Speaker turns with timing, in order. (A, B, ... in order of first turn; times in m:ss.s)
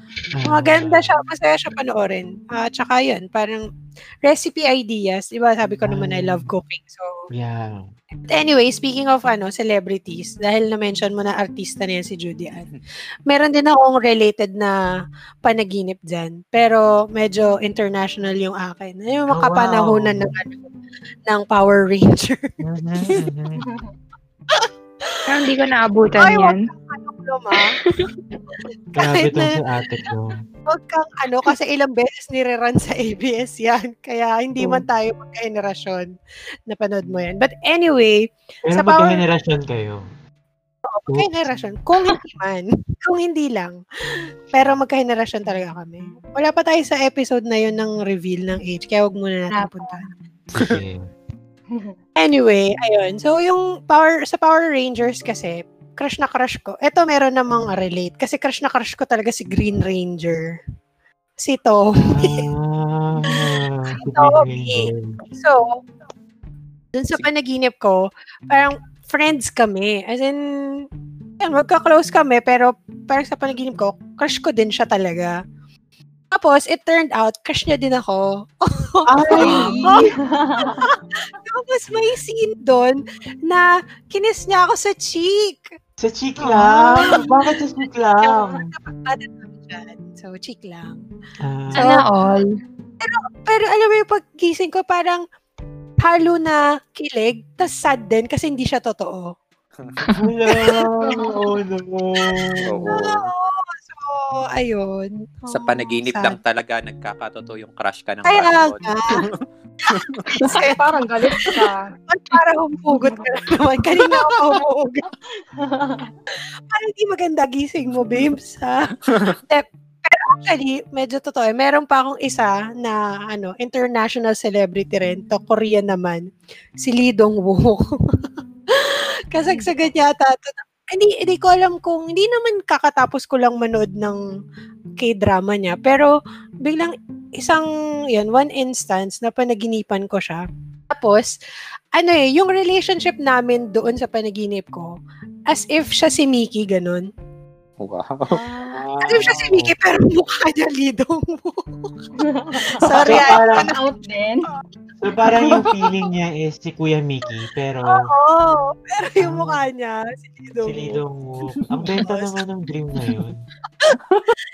0:00.3-0:01.1 A
0:00.4-0:03.6 B
0:04.2-0:07.3 B
0:05.8-0:06.5 A
0:07.3-0:07.9 A
0:08.3-0:12.7 B
0:12.5-0:12.8 C
0:13.3-0:14.8 B
0:15.4-0:20.7 B
0:19.3-0:20.3 A
0:21.3-0:22.5 B
0:22.6-0:23.6 A
0:24.5-0:25.2 B
0:25.3-0:26.6 D
0:26.2-0:27.8 B
0:27.8-0:28.1 D
0:29.0-0:30.4 A
0:29.0-0:29.6 B
0:30.7-0:36.1 B
0:34.6-0:34.8 A
0:36.7-0:39.2 B
0:38.6-0:40.0 A
0:40.9-0:43.8 B
0:41.1-0:41.5 A
0:44.5-0:50.1 B
0:49.5-0:50.1 D
0:50.5-0:51.0 A
0:52.2-1:00.5 B
1:01.4-1:02.5 B
1:02.0-1:05.2 A
1:04.0-1:05.9 B
1:06.9-1:10.9 B
1:11.4-1:15.3 B
1:16.3-1:25.7 B
1:19.1-1:20.0 A
1:19.3-1:20.9 E
1:26.0-1:28.7 A
1:26.5-1:27.1 D
1:27.0-1:27.5 B
1:28.3-1:31.0 B
1:31.4-1:32.0 A
1:31.8-1:32.1 B
1:31.8-1:32.5 D
1:33.0-1:35.2 B
1:36.0-1:39.3 B
1:39.8-1:40.1 C
1:40.2-1:42.9 A
1:40.5-1:40.9 B
1:41.0-1:41.4 E
1:42.3-1:46.4 B
1:42.6-1:43.3 C
1:45.5-1:50.3 C
1:48.2-1:49.2 B
1:50.3-1:50.8 B
1:50.4-1:51.9 E
1:51.5-1:55.1 B
1:55.4-1:56.1 E
1:56.7-2:06.2 B
2:06.8-2:07.9 B
2:08.7-2:14.2 B
2:15.0-2:16.1 B
2:16.6-2:21.3 B
2:22.0-2:24.9 B
2:25.5-2:27.1 B
2:27.8-2:29.4 C
2:29.0-2:31.9 B
2:29.3-2:29.8 A
2:32.2-2:34.5 E
2:32.8-2:33.9 B
2:32.9-2:33.2 C
2:33.0-2:33.7 A
2:35.0-2:38.1 A
2:37.9-2:41.0 B
2:39.2-2:39.6 A
2:40.6-2:43.5 A
2:42.0-2:42.4 B